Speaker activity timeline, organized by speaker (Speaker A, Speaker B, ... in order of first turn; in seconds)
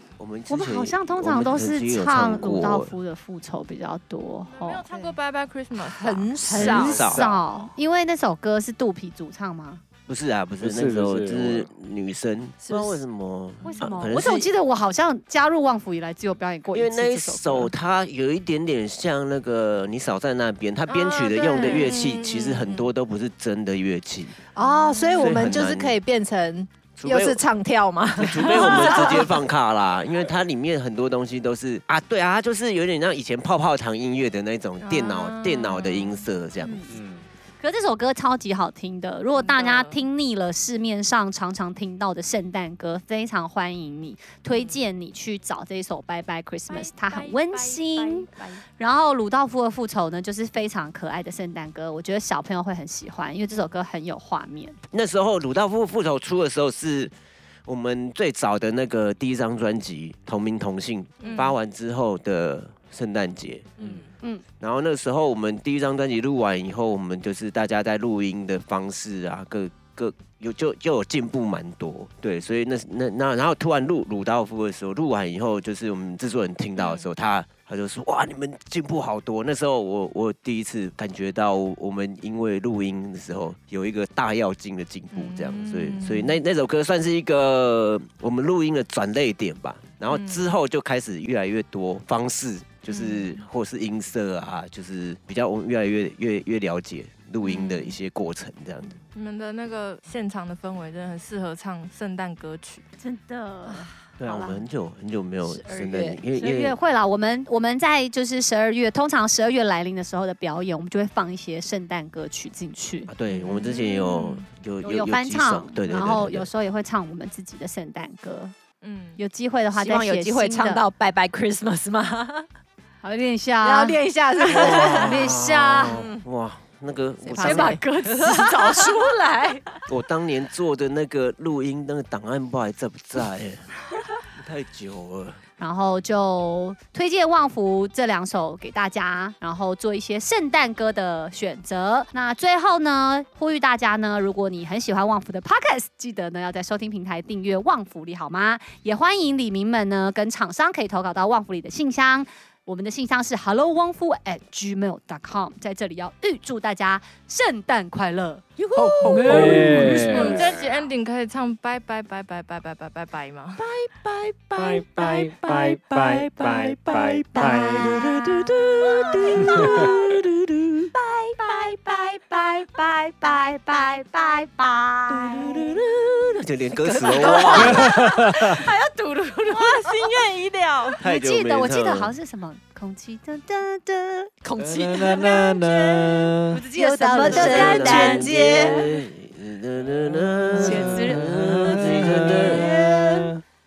Speaker A: 0.2-3.0, 6.7-7.3, 10.1-14.5, 16.7-24.4, 25.2-26.0, 27.0-27.4, 28.2-36.9, 54.9-57.1, 57.7-63.7, 64.6-99.0, 104.2-106.8, 113.1-116.5, 124.5-127.8, 129.9-133.7, 134.3-135.4, 158.8-160.6, 168.3-170.7, 175.1-177.9, 181.0-182.1, 187.2-192.7
Speaker B: 0.5-4.8, 6.4-9.8, 13.6-17.7, 24.6-25.2, 36.6-37.0, 37.6-54.8, 103.0-104.6, 105.5-113.1, 114.8-118.5, 119.2-120.8, 123.0-126.0, 127.4-129.7, 135.6-158.4, 167.3-170.0, 171.0-175.7, 177.1-179.9, 181.0-184.3, 186.5-188.9, 190.6-191.3
Speaker C: 4.5-7.1, 20.9-22.9, 28.7-29.1, 34.8-36.3, 39.4-40.0, 46.7-48.6, 61.2-61.6, 76.8-77.1, 85.1-86.4, 90.1-90.5, 92.9-93.4, 97.4-98.0, 99.1-102.8, 113.6-114.3, 118.8-119.2, 159.9-163.7, 179.5-181.0
Speaker D: 5.8-7.7, 12.6-13.0, 24.6-29.3, 63.8-64.1, 105.9-106.2, 119.7-122.5, 123.6-125.3, 125.9-126.2, 127.3-129.1, 158.6-160.3, 163.6-168.3, 169.3-170.0, 171.2-171.5, 176.8-178.0, 184.4-188.9, 192.4-193.3
Speaker E: 6.7-7.2, 10.6-11.7, 36.9-37.2, 159.1-160.6, 164.6-168.2, 169.5-170.0, 177.6-178.6, 184.6-186.6, 190.3-193.4